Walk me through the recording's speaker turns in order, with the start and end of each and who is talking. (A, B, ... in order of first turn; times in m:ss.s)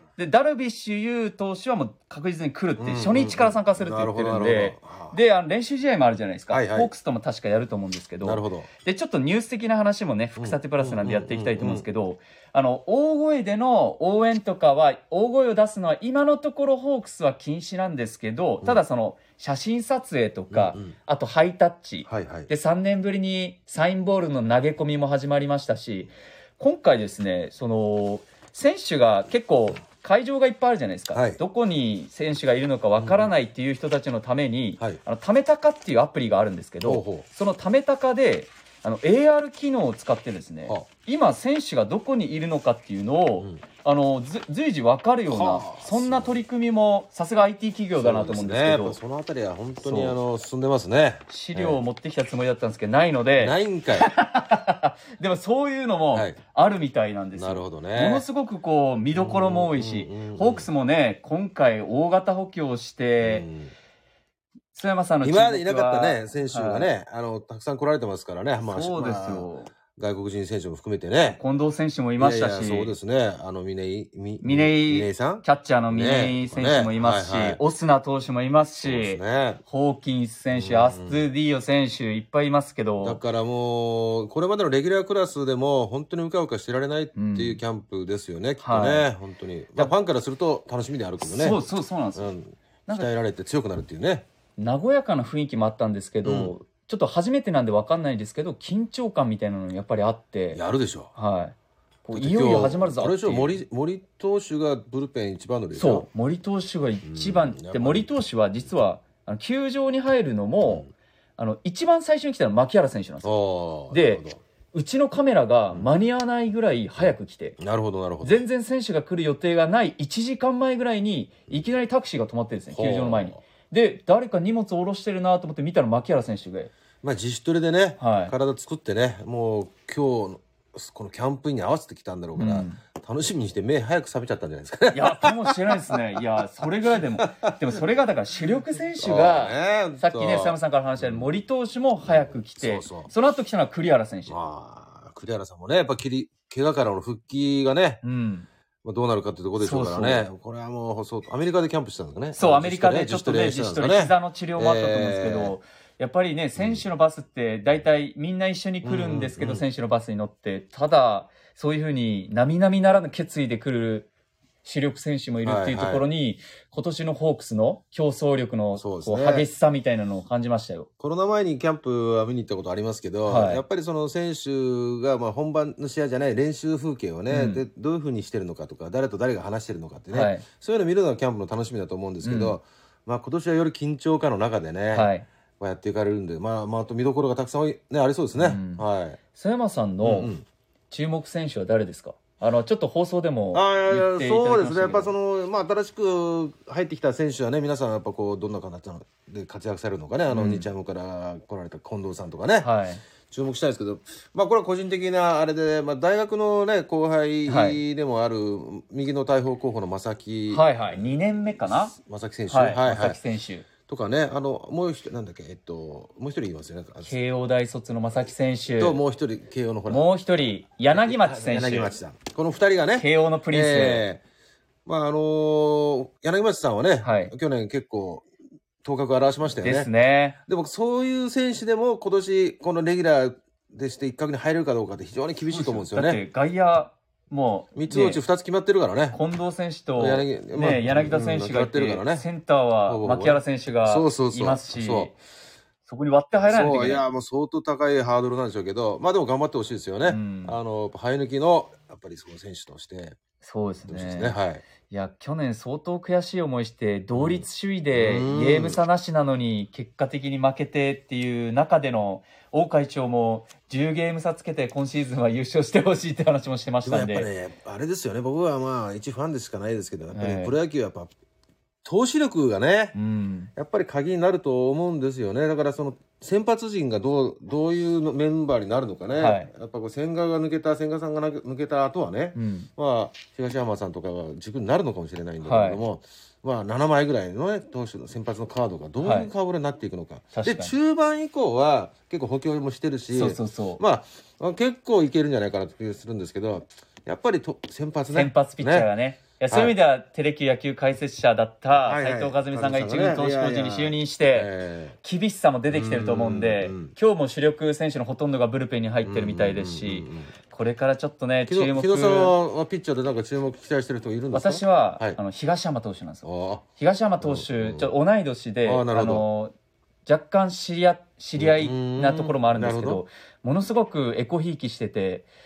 0:00.2-0:49.0 A
0:02.8-0:05.2 B
0:06.5-0:06.9 B
0:08.2-0:08.7 B
0:10.4-0:11.9 B
0:20.5-0:20.9 B
0:22.1-0:22.5 B
0:31.1-0:31.4 B
0:33.0-0:33.3 B
0:36.8-0:37.2 B
0:45.3-0:46.4 B
0:48.0-0:51.8 B
0:49.8-0:50.2 A
0:51.3-1:03.5 A
0:53.4-0:54.1 B
0:56.1-0:56.4 B
0:57.4-0:58.2 B
0:59.1-1:00.7 B
1:03.2-1:03.7 B
1:04.7-1:06.9 A
1:05.2-1:11.4 B
1:08.7-1:09.7 A
1:11.3-1:12.9 A
1:12.2-1:17.6 B
1:14.4-1:23.2 A
1:18.8-1:19.6 B
1:20.5-1:21.2 B
1:23.0-1:31.6 B
1:27.2-1:27.6 A
1:28.6-1:29.1 A
1:31.2-1:32.3 A
1:32.1-1:34.2 B
1:34.6-1:40.6 A
1:36.2-1:36.5 B
1:40.5-1:41.1 B
1:41.1-1:41.5 A
1:42.0-1:43.6 A
1:42.1-1:46.0 B
1:45.8-1:50.9 A
1:47.0-1:48.1 B
1:50.6-1:50.9 B
1:51.4-1:53.3 A
1:53.2-1:54.4 B
1:53.9-1:57.6 A
1:57.6-1:58.4 B
1:58.2-2:06.7 A
2:02.7-2:03.4 B
2:07.0-2:15.9 B
2:08.0-2:08.3 A
2:12.4-2:12.8 A
2:14.9-2:24.3 A
2:17.0-2:17.6 B
2:19.0-2:21.3 B
2:22.0-2:23.1 B
2:24.3-2:28.0 B
2:28.0-2:28.5 A
2:28.8-2:35.5 B
2:29.6-2:30.3 A
2:32.3-2:44.1 A
2:36.6-2:36.8 B
2:38.8-2:39.6 B
2:44.6-2:50.9 A
2:45.4-2:46.0 B
2:48.7-2:49.5 B
2:51.0-3:09.2 B
2:53.2-2:53.6 A
2:57.3-2:57.6 A
3:00.1-3:00.4 A
3:02.2-3:02.6 A
3:04.9-3:05.2 A
3:08.4-3:10.3 A
3:10.0-3:10.4 B
3:10.9-3:15.1 A
3:13.5-3:22.7 B
3:20.3-3:20.7 A
3:22.6-3:23.0 A
3:23.2-3:30.9 B
3:27.5-3:27.8 A
3:30.5-3:32.0 A
3:31.9-3:33.2 B
3:32.5-3:33.7 A
3:33.9-3:37.2 B
3:37.0-3:39.0 A
3:38.7-3:40.0 B
3:39.9-3:41.9 A
3:40.9-3:44.2 B
3:43.0-3:44.0 A
3:44.8-3:48.2 B
3:47.0-3:47.3 A
3:48.8-3:49.9 B
3:49.6-3:50.4 A
3:50.5-3:56.2 B
3:55.5-3:58.2 A
3:57.7-3:59.2 B
3:59.1-4:05.2 A
4:00.0-4:02.2 B
4:02.8-4:05.1 B
4:05.8-4:07.0 A
4:06.5-4:13.2 B
4:10.1-4:10.6 A
4:13.4-4:27.3 A
4:13.9-4:14.6 B
4:17.2-4:18.8 B
4:26.8-4:31.1 B
4:30.1-4:30.5 A
4:31.8-4:32.9 B
4:32.9-4:33.5 A
4:33.6-4:58.9 B
4:39.2-4:39.5 A
4:42.3-4:42.7 A
4:45.4-4:45.8 A
4:49.0-4:49.3 A
4:50.3-4:50.7 A
4:53.1-4:53.8 A
4:58.1-5:04.5 A
5:01.8-5:05.0 B
5:05.0-5:12.4 A
5:05.7-5:06.9 B
5:09.0-5:10.3 B
5:11.5-5:15.2 B
5:14.3-5:16.2 A
5:16.2-5:16.6 B
5:16.8-5:19.5 A
5:17.2-5:17.9 B
5:18.6-5:19.2 B
5:20.0-5:25.3 A
5:21.4-5:23.0 B